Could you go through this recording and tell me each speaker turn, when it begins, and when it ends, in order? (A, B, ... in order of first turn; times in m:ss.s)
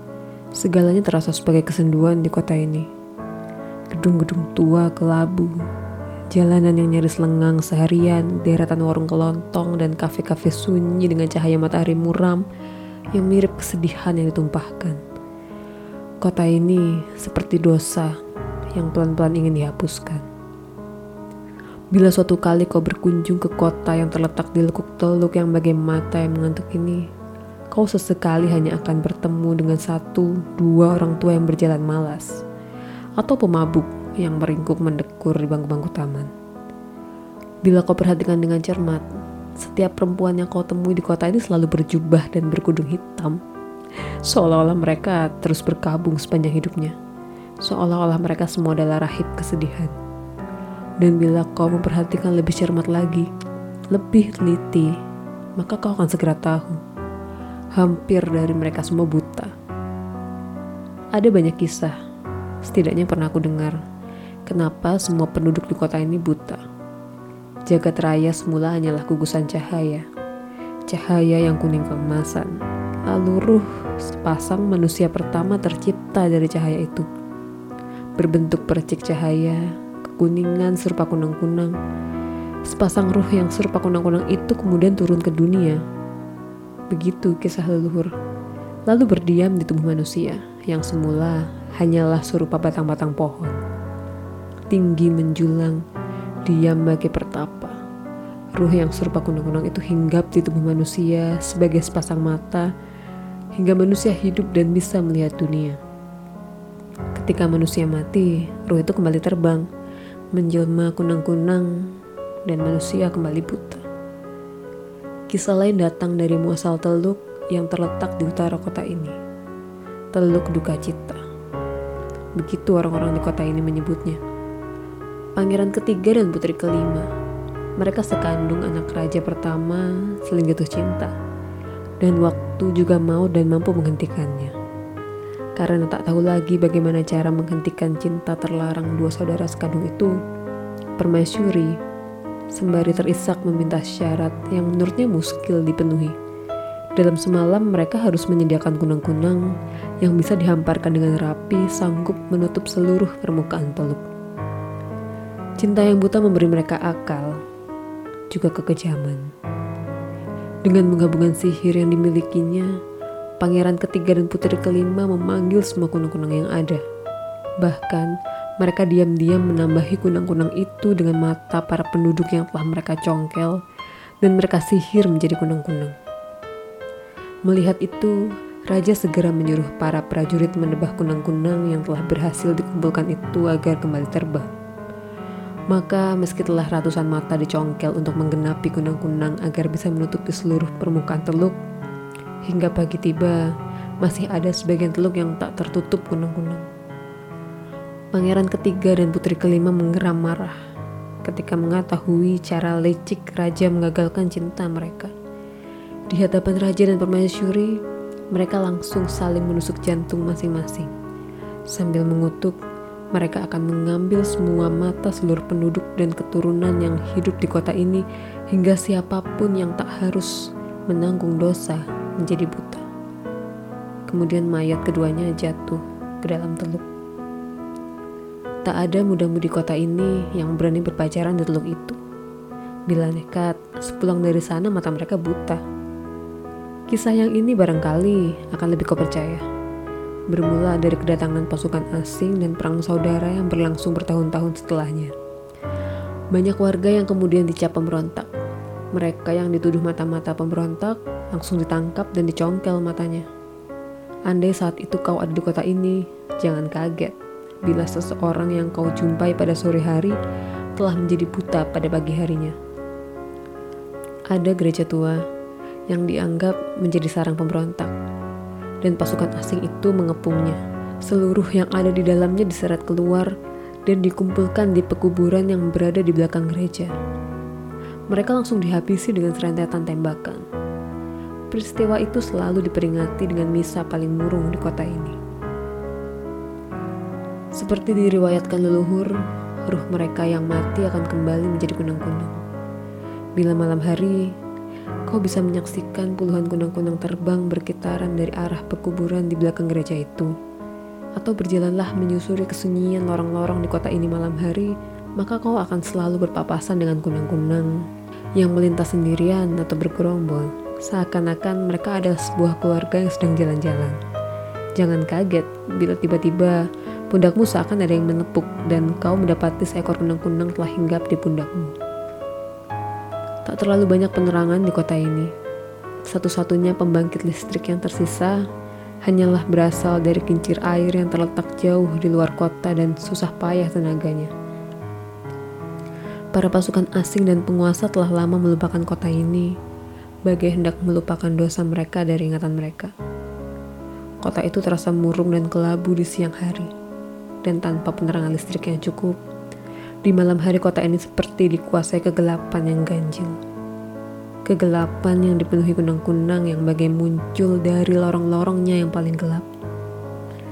0:00.6-0:02.9 A
0:03.9-0:05.5 A
0:06.3-0:12.4 A
0:13.1-0:15.0 A
0:16.2-0:18.2 A
0:18.7-0:20.2 A
0:21.9-0:27.0 A
0:27.7-0:32.4 A
0:33.2-0:36.3 A
0:37.6-0:39.0 A
0:39.6-0:43.4 A
0:44.2-0:47.0 A
0:47.6-0:50.0 A
0:51.0-0:53.3 A
0:53.9-0:55.0 A
0:55.6-0:56.8 A
0:57.8-0:59.5 A
1:01.2-1:02.0 A
1:02.6-1:03.8 A
1:04.5-1:06.6 A
1:07.7-1:10.0 A
1:10.9-1:12.5 A
1:13.1-1:17.1 A
1:18.2-1:21.8 A
1:22.7-1:25.8 A
1:26.9-1:28.1 A
1:28.9-1:33.6 A
1:34.7-1:35.8 A
1:36.5-1:37.8 A
1:38.6-1:42.7 A
1:43.6-1:45.8 A
1:47.2-1:49.7 A
1:50.3-1:51.7 A
1:52.5-1:53.8 A
1:55.3-1:59.2 A
2:00.1-2:01.2 A
2:02.4-2:04.2 A
2:05.4-2:07.1 A
2:07.8-2:11.1 A
2:12.0-2:14.5 A
2:15.6-2:20.2 A
2:21.0-2:21.8 A
2:22.5-2:26.2 A
2:27.0-2:29.5 A
2:30.0-2:34.0 A
2:35.6-2:37.4 A
2:38.3-2:39.3 A
2:40.6-2:42.7 A
2:43.4-2:46.8 A
2:47.6-2:53.6 A
2:54.2-2:56.0 A
2:57.5-2:58.2 A
2:58.7-3:04.5 A
3:05.7-3:11.6 A
3:12.5-3:13.4 A
3:14.0-3:16.7 A
3:18.1-3:20.6 A
3:21.2-3:25.1 A
3:26.1-3:27.8 A
3:28.3-3:30.9 A
3:31.7-3:32.6 A
3:33.1-3:40.3 A
3:40.9-3:42.8 A
3:44.1-3:46.8 A
3:48.6-3:52.0 A
3:52.9-3:55.6 A
3:56.9-3:59.4 A
4:00.3-4:05.1 A
4:06.3-4:08.3 A
4:08.9-4:13.3 A
4:14.3-4:20.2 A
4:20.8-4:22.6 A
4:24.3-4:25.2 A
4:25.9-4:27.9 A
4:28.8-4:33.3 A
4:33.9-4:36.9 A
4:38.1-4:40.4 A
4:41.5-4:45.2 A
4:47.6-4:49.2 A
4:49.7-4:52.4 A
4:53.4-4:54.3 A
4:55.1-5:00.3 A
5:01.2-5:07.7 A
5:08.4-5:14.0 A
5:14.8-5:16.6 A
5:17.1-5:21.8 A
5:23.5-5:25.3 A
5:26.1-5:28.4 A
5:29.0-5:34.3 A
5:36.3-5:39.5 A
5:40.2-5:42.9 A
5:44.2-5:46.7 A
5:47.4-5:49.2 A
5:50.0-5:53.4 A
5:54.5-5:59.5 A